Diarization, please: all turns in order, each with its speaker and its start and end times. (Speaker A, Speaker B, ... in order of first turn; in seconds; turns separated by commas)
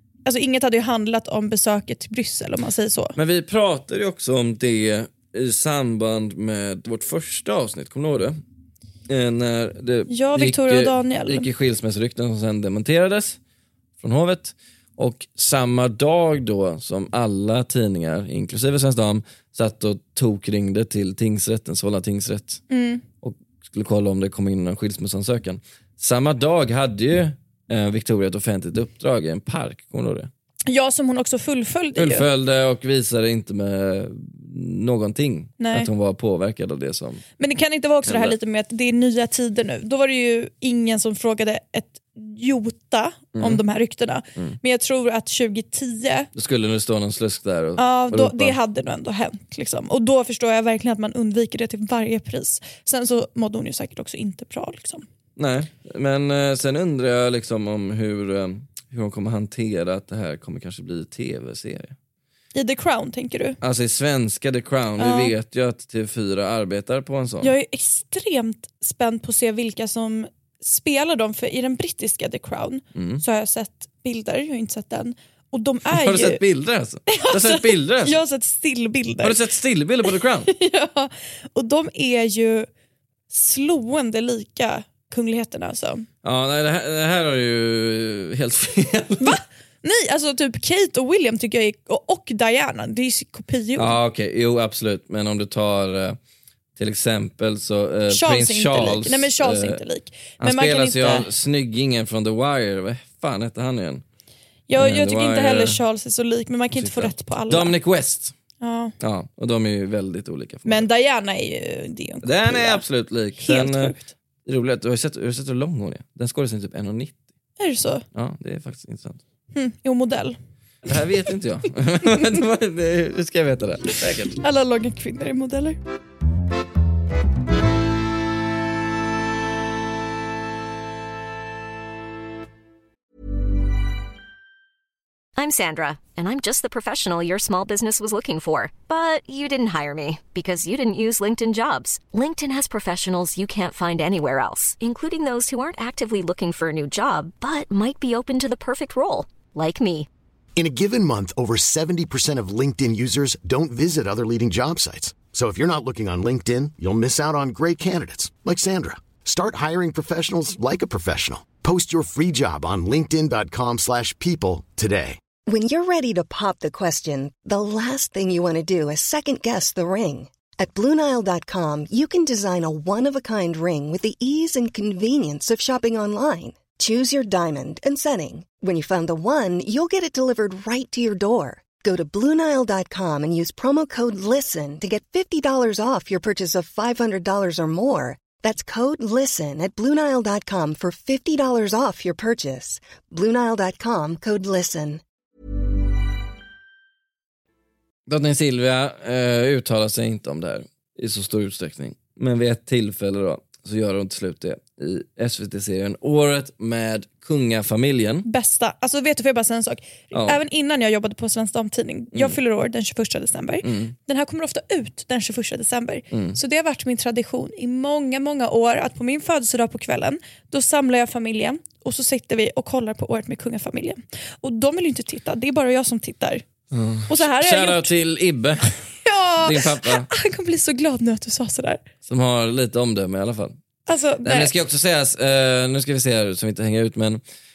Speaker A: 0.2-3.1, Speaker B: 3.1-8.3, Speaker B: 9.1-13.4, Speaker A: 10.1-11.4, Speaker B: 14.0-22.6, Speaker A: 22.7-23.0, Speaker B: 23.2-30.3, Speaker A: 30.7-32.3, Speaker B: 31.9-37.2, Speaker A: 35.6-35.9, Speaker A: 37.4-46.3, Speaker B: 38.1-38.4, Speaker B: 43.4-43.6, Speaker B: 46.3-48.6, Speaker A: 47.8-55.0, Speaker B: 55.4-61.9, Speaker A: 62.5-63.6, Speaker B: 63.6-67.5, Speaker A: 65.0-65.3, Speaker A: 67.4-76.4, Speaker B: 72.9-73.2, Speaker B: 75.9-78.2, Speaker A: 77.1-79.4, Speaker B: 79.2-80.5, Speaker A: 80.5-82.7, Speaker A: 83.3-86.1, Speaker B: 86.2-89.4, Speaker A: 89.2-94.0, Speaker B: 93.8-96.2, Speaker B: 96.8-99.8, Speaker A: 98.1-101.3, Speaker B: 100.4-104.0, Speaker A: 104.7-107.8, Speaker B: 104.7-105.8, Speaker B: 106.7-108.3, Speaker A: 108.6-108.9, Speaker B: 109.0-110.9, Speaker A: 110.6-112.8, Speaker B: 112.2-117.2, Speaker A: 113.4-114.1, Speaker A: 117.6-118.0, Speaker B: 118.1-119.2, Speaker A: 119.5-120.4, Speaker B: 120.8-124.4, Speaker A: 124.4-125.8, Speaker C: 135.4-150.1, Speaker D: 150.6-165.2, Speaker E: 165.5-195.0, Speaker B: 198.1-208.2, Speaker A: 208.2-226.4, Speaker B: 210.1-210.4, Speaker B: 213.6-213.9, Speaker B: 216.1-216.4, Speaker B: 226.7-230.1, Speaker A: 227.1-227.9, Speaker A: 229.0-231.8, Speaker B: 232.0-233.6, Speaker A: 233.8-234.5, Speaker B: 234.2-237.2